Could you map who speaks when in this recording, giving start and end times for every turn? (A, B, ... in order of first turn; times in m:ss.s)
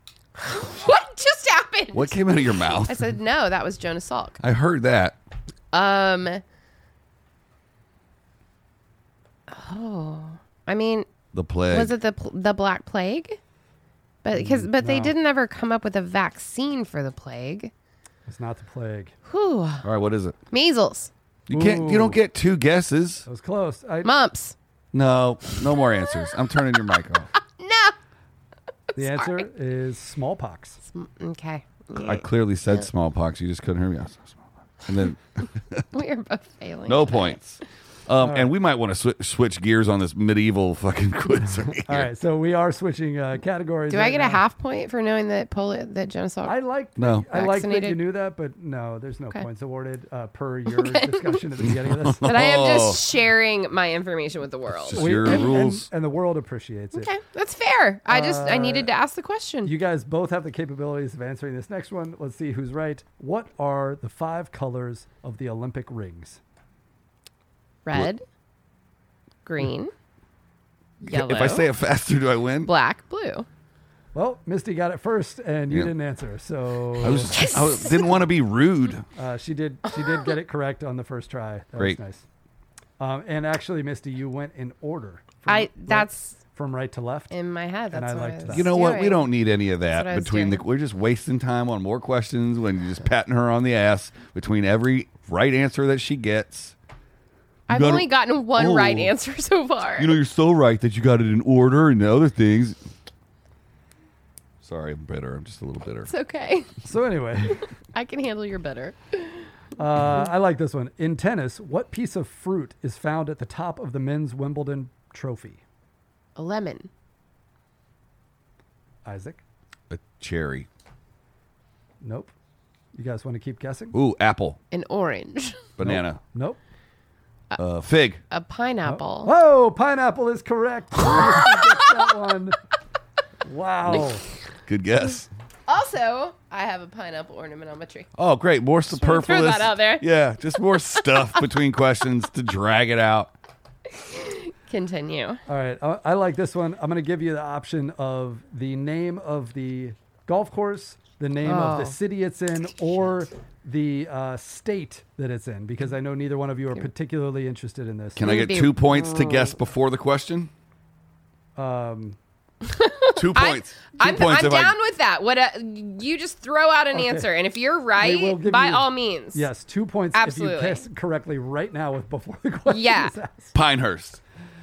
0:00.4-0:04.4 A
0:01.9-0:03.0 B
0:04.4-0:05.2 B
0:05.7-0:06.4 A
0:09.5-0:11.1 A
0:11.3-0:12.0 B
0:11.7-0:13.4 A
0:14.2-0:17.7 A
0:14.3-0:15.2 C
0:18.3-0:19.1 C
0:19.2-0:19.9 A
0:19.8-0:20.4 B
0:20.5-0:21.1 A
0:21.5-0:23.3 B
0:21.5-0:22.2 C
0:23.3-0:24.1 C
0:24.0-0:24.6 A
0:24.9-0:27.3 B
0:27.6-0:28.0 A
0:28.9-0:29.5 A
0:29.0-0:30.8 C
0:30.8-0:32.7 A
0:32.0-0:35.9 B
0:35.9-0:37.4 A
0:36.9-0:42.1 B
0:38.2-0:38.5 C
0:41.8-0:44.4 C
0:43.9-0:46.6 A
0:46.4-0:52.4 C
0:47.0-0:47.3 B
0:47.3-0:48.0 A
0:50.7-0:51.4 A
0:51.6-0:53.0 B
0:52.2-0:55.5 A
0:54.7-0:55.9 B
0:54.9-0:57.1 C
0:56.9-0:59.7 A
0:58.1-0:58.9 C
0:59.6-1:06.4 C
1:07.8-1:08.2 A
1:09.4-1:09.9 A
1:11.0-1:11.7 A
1:11.1-1:12.7 B
1:12.6-1:13.5 A
1:14.2-1:17.4 C
1:17.0-1:19.1 B
1:17.3-1:18.1 A
1:19.2-1:22.2 C
1:23.0-1:27.3 C
1:25.5-1:26.4 A
1:27.3-1:29.3 A
1:27.9-1:28.7 C
1:28.5-1:36.8 B
1:29.9-1:30.6 A
1:37.7-1:40.2 A
1:37.7-1:39.2 B
1:40.0-1:42.8 B
1:44.6-1:46.1 B
1:46.1-1:46.9 A
1:46.8-1:47.6 C
1:47.9-1:49.5 A
1:49.8-1:55.6 C
1:56.4-1:56.9 A
1:59.0-1:59.4 C
1:59.9-2:00.7 B
2:02.0-2:02.3 C
2:03.0-2:04.0 C
2:03.9-2:04.6 B
2:04.7-2:05.6 A
2:05.8-2:06.2 B
2:05.8-2:06.6 C
2:07.6-2:08.2 B
2:08.3-2:09.3 A
2:08.8-2:12.6 C
2:11.4-2:12.0 A
2:13.4-2:14.2 C
2:14.7-2:15.3 B
2:15.7-2:18.1 A
2:18.2-2:23.3 B
2:18.9-2:20.0 A
2:21.0-2:21.4 A
2:23.9-2:25.4 A
2:25.5-2:38.3 C
2:31.4-2:32.0 A
2:38.2-2:40.5 B
2:38.2-2:39.5 A
2:41.6-2:42.2 C
2:42.6-2:49.5 A
2:43.2-2:44.8 B
2:46.9-2:47.3 C
2:48.0-2:53.5 C
2:50.1-2:50.8 A
2:52.7-2:53.1 A
2:53.5-2:54.2 B